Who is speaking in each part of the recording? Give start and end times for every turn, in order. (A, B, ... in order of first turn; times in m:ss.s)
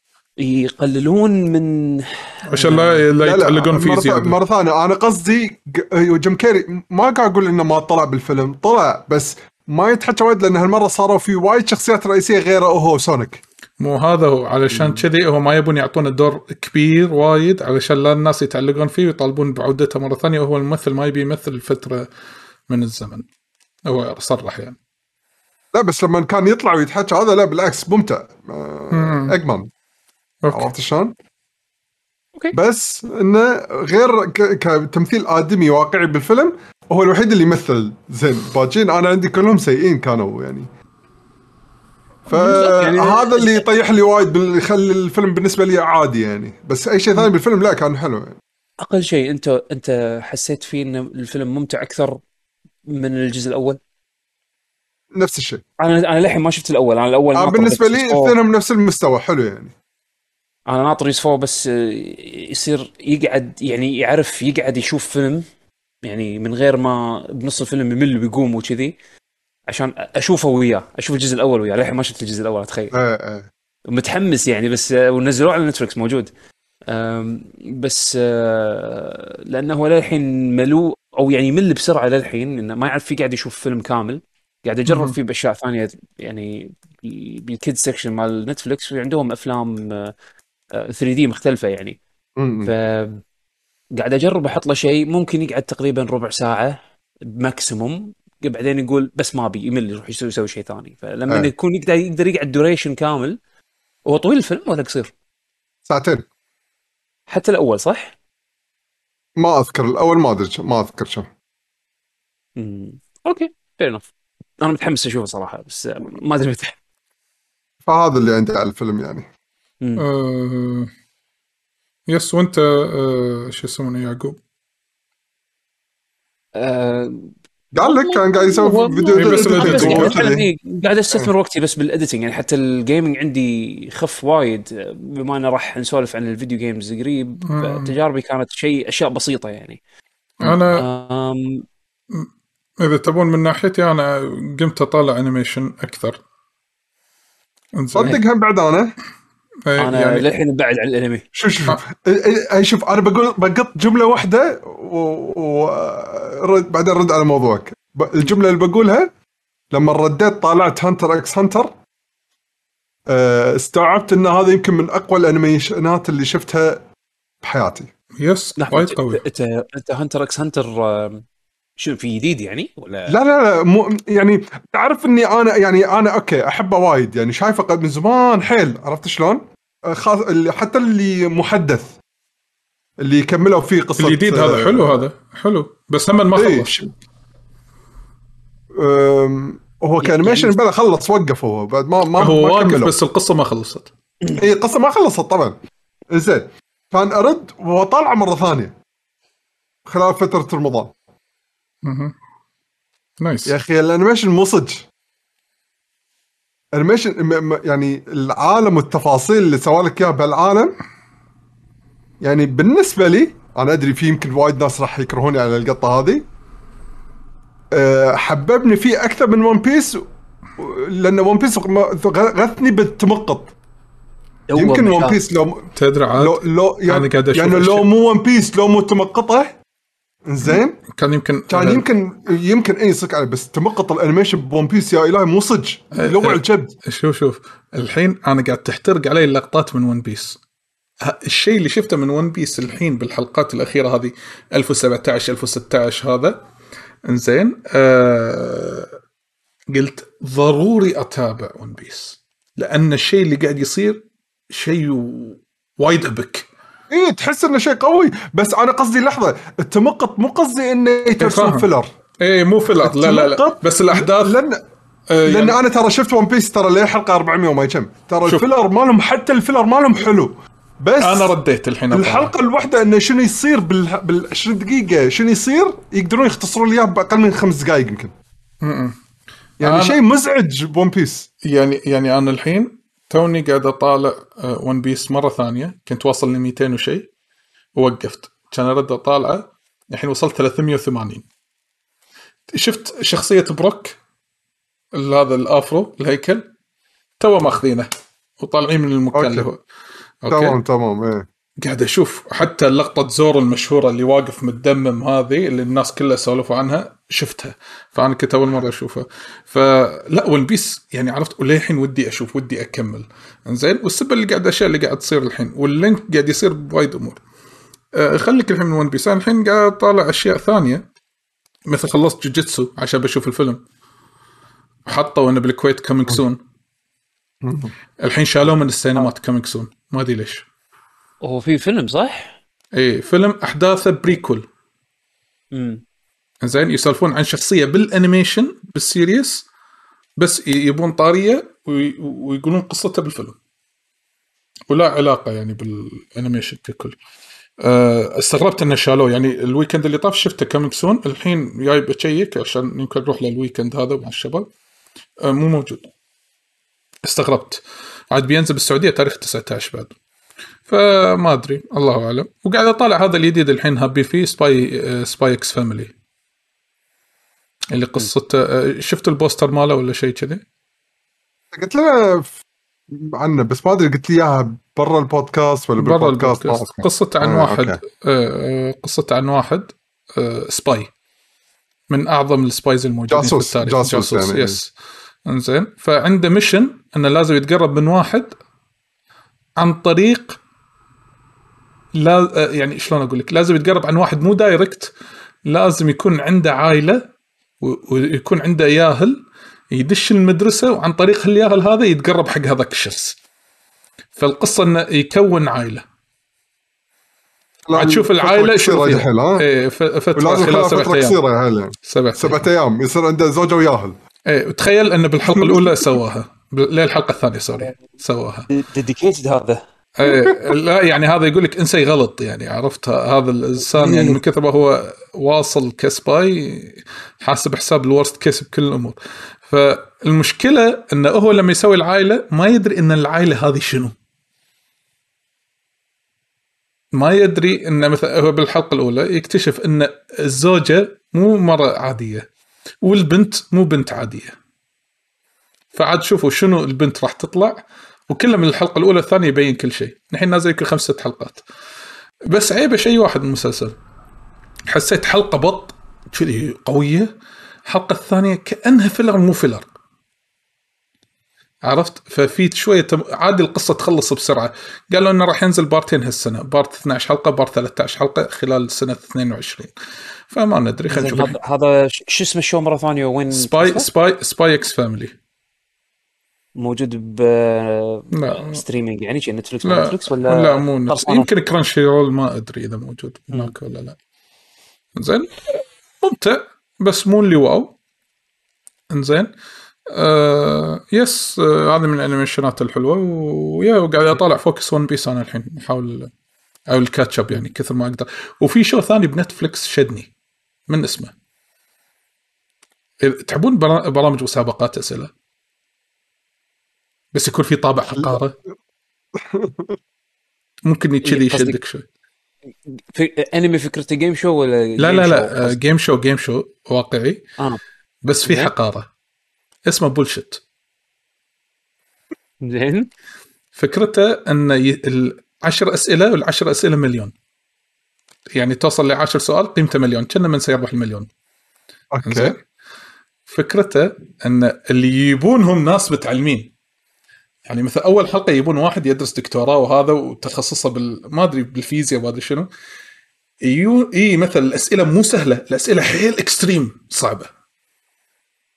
0:00.4-0:03.0 A
0:02.5-0:04.4 B
0:03.2-0:13.4 C
0:13.8-0:22.1 B
0:14.7-0:15.0 C
0:22.7-0:23.2 B
0:23.9-0:24.8 B
0:25.7-0:29.7 C
0:28.9-0:29.4 B
0:30.4-0:30.7 B
0:30.5-0:31.1 C
0:32.5-0:40.7 C
0:42.3-0:48.4 C
0:42.3-0:43.6 A
0:48.8-0:52.2 A
0:52.9-0:53.8 A
0:55.2-0:55.6 C
0:55.8-0:58.4 A
0:57.4-0:59.7 C
1:00.7-1:05.4 A
1:06.0-1:09.0 A
1:09.7-1:12.9 A
1:12.9-1:13.5 C
1:13.9-1:16.3 A
1:16.9-1:30.1 A
1:24.9-1:25.2 B
1:30.7-1:32.0 A
1:32.4-1:32.7 C
1:32.6-1:33.2 A
1:34.0-1:43.4 A
1:44.1-1:45.1 A
1:45.9-1:46.2 C
1:47.3-1:48.2 A
1:49.4-1:51.3 C
1:52.6-1:54.1 A
1:54.6-1:56.8 A
1:57.9-1:59.3 C
2:00.0-2:00.9 B
2:02.1-2:04.4 B
2:06.6-2:19.8 A
2:07.7-2:10.4 C
2:09.2-2:10.2 B
2:17.5-2:18.0 B
2:20.4-2:20.9 B
2:20.7-2:21.6 A
2:22.1-2:26.2 B
2:27.8-2:28.2 B
2:28.0-2:28.9 C
2:29.7-2:30.3 B
2:29.8-2:31.2 A
2:31.3-2:39.1 C
2:39.7-2:41.7 C
2:43.1-2:46.8 C
2:47.4-2:47.9 C
2:48.2-2:49.2 B
2:48.6-2:51.2 A
2:51.8-2:53.2 A
2:53.1-3:02.0 C
3:03.0-3:05.0 C
3:04.0-3:06.8 B
3:06.4-3:06.9 C
3:08.8-3:12.9 C
3:10.0-3:10.6 A
3:12.2-3:13.9 B
3:14.4-3:15.6 C
3:16.1-3:18.7 C
3:19.9-3:20.9 C
3:21.8-3:22.1 B
3:23.2-3:23.6 B
3:23.5-3:24.9 C
3:26.7-3:30.8 C
3:32.2-3:36.2 C
3:37.7-3:40.0 C
3:40.6-3:43.6 C
3:44.5-3:45.2 A
3:44.6-3:49.6 C
3:45.8-3:47.9 B
3:50.3-3:50.8 C
3:50.4-3:51.8 B
3:51.5-3:56.7 C
3:55.9-4:00.4 B
4:01.0-4:06.4 B
4:07.1-4:09.0 B
4:09.7-4:16.5 B
4:16.9-4:21.9 C
4:21.2-4:21.7 B
4:22.2-4:24.4 B
4:22.7-4:24.6 C
4:25.1-4:25.6 B
4:25.3-4:31.4 C
4:31.0-4:32.3 B
4:31.9-4:38.1 C
4:38.6-4:39.0 B
4:39.6-4:41.3 C
4:39.6-4:40.0 B
4:41.4-4:47.1 B
4:47.8-4:51.2 B
4:52.5-4:54.0 B
4:54.9-4:56.4 B
4:57.2-4:57.9 B
4:58.4-4:59.6 B
4:59.1-4:59.5 C
5:00.2-5:00.6 B
5:00.3-5:01.3 C
5:01.6-5:17.2 B
5:17.9-5:20.8 B
5:21.7-5:23.6 B
5:24.9-5:26.4 B
5:27.4-5:27.7 C
5:28.0-5:30.4 B
5:31.2-5:32.4 A
5:32.8-5:34.4 B
5:35.5-5:35.8 A
5:36.4-5:39.5 B
5:40.2-5:43.4 B
5:44.7-5:47.0 B
5:47.6-5:54.5 B
5:55.2-5:55.9 B
5:57.0-6:00.0 B
6:00.7-6:05.9 B
6:07.7-6:10.4 B
6:11.5-6:12.4 C
6:12.9-6:17.8 C
6:15.8-6:20.9 B
6:21.9-6:24.7 B
6:23.1-6:24.6 C
6:25.3-6:28.4 B
6:29.6-6:30.4 B
6:31.9-6:34.9 B
6:35.5-6:37.0 B
6:37.6-6:39.2 B
6:39.7-6:43.2 B
6:44.2-6:45.8 B
6:47.6-6:49.5 C
6:47.7-6:51.2 B
6:50.2-6:54.0 C
6:51.9-6:52.4 B
6:54.3-6:58.5 B
6:55.3-6:55.9 C
6:58.5-6:59.6 A
7:00.0-7:13.9 B
7:03.7-7:04.2 A
7:16.9-7:22.3 B
7:22.8-7:24.4 B
7:25.7-7:31.4 B
7:32.3-7:33.8 B
7:34.7-7:37.1 B
7:37.7-7:39.7 B
7:41.6-7:49.7 B
7:50.3-7:51.4 B
7:50.9-7:53.9 A
7:53.3-7:55.1 B
7:56.6-8:01.3 A
7:58.1-7:58.6 B
7:59.6-8:04.0 B
8:05.0-8:07.7 B
8:08.9-8:09.3 B
8:09.9-8:16.1 B
8:16.7-8:20.1 B
8:20.7-8:21.1 B
8:23.0-8:25.1 B
8:27.1-8:28.3 B
8:29.2-8:29.8 C
8:30.7-8:31.8 B
8:31.0-8:31.6 A
8:32.8-8:35.6 A
8:34.8-8:37.2 B
8:38.0-8:38.9 B
8:38.3-8:38.5 A
8:39.7-8:40.4 B
8:42.4-8:42.9 A
8:43.6-8:47.1 B
8:48.4-8:51.1 B
8:51.9-8:52.4 C
8:52.1-8:52.4 B
8:53.3-8:56.5 B
8:57.5-9:02.5 B
9:03.4-9:07.3 B